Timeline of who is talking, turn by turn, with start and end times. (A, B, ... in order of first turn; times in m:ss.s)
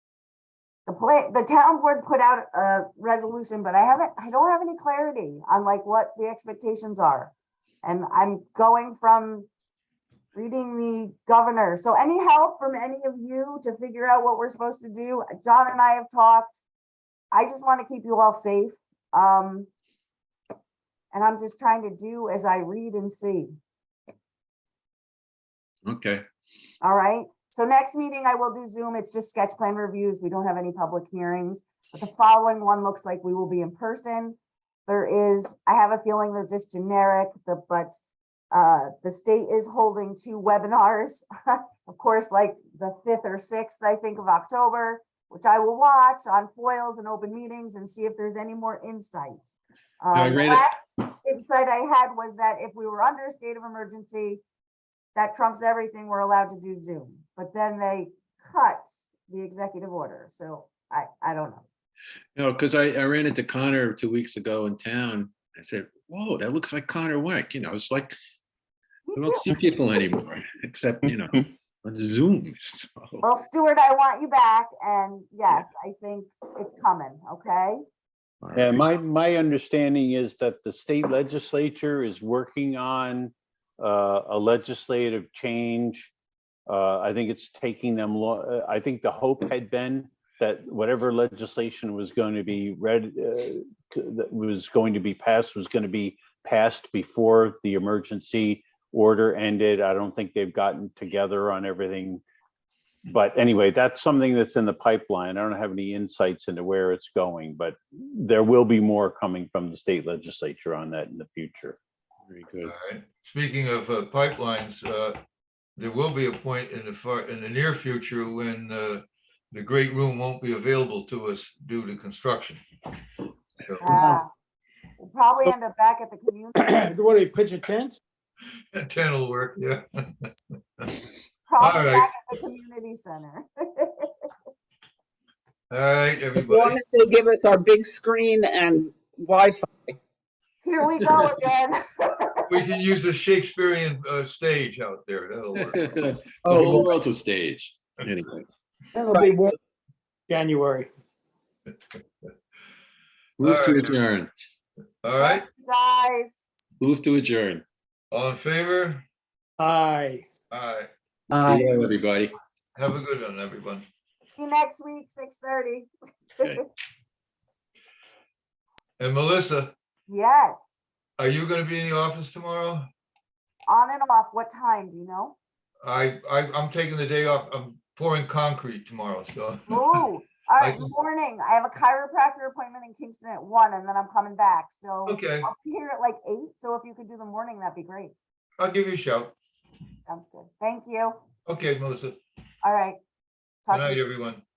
0:00.9-0:09.5 A
0:10.3-0:16.6 A
0:17.3-0:19.7 A
0:21.1-0:23.5 A
0:25.9-0:26.2 B
0:26.8-0:38.0 A
0:38.5-0:54.4 A
0:50.1-0:50.7 B
0:55.2-1:01.6 A
1:02.4-1:08.2 B
1:09.1-1:09.5 A
1:09.2-1:13.2 B
1:13.2-1:17.8 A
1:18.4-1:18.9 B
1:18.6-1:26.1 C
1:26.7-1:42.2 C
1:43.1-1:51.8 C
1:52.3-1:52.7 B
1:52.6-1:55.2 D
1:55.8-2:02.6 D
2:03.7-2:04.0 D
2:03.8-2:04.3 A
2:03.9-2:04.2 B
2:05.0-2:06.8 A
2:06.6-2:08.0 E
2:08.7-2:11.0 D
2:11.5-2:14.1 A
2:11.6-2:12.1 D
2:15.7-2:16.8 D
2:16.4-2:19.9 F
2:20.6-2:22.4 A
2:22.5-2:26.9 D
2:25.6-2:28.5 B
2:26.5-2:26.7 E
2:29.0-2:29.6 E
2:30.3-2:30.9 E
2:33.4-2:34.3 B
2:33.4-2:34.0 D
2:35.0-2:35.4 D
2:35.2-2:36.4 A
2:36.8-2:37.6 B
2:38.1-2:39.0 D
2:39.6-2:40.2 E
2:40.5-2:40.9 D
2:41.3-2:41.6 F
2:41.4-2:42.4 B
2:42.8-2:43.9 D
2:44.4-2:45.9 A
2:49.0-2:49.7 D
2:50.1-2:50.7 A
2:51.2-2:52.9 D
2:53.7-2:55.4 A
2:55.8-3:00.1 D
2:59.7-3:08.1 A
3:00.6-3:00.9 D
3:05.1-3:05.5 D
3:08.6-3:09.3 D
3:10.1-3:11.2 A
3:11.5-3:12.2 D
3:12.6-3:13.0 A
3:13.7-3:14.1 A
3:13.7-3:14.4 D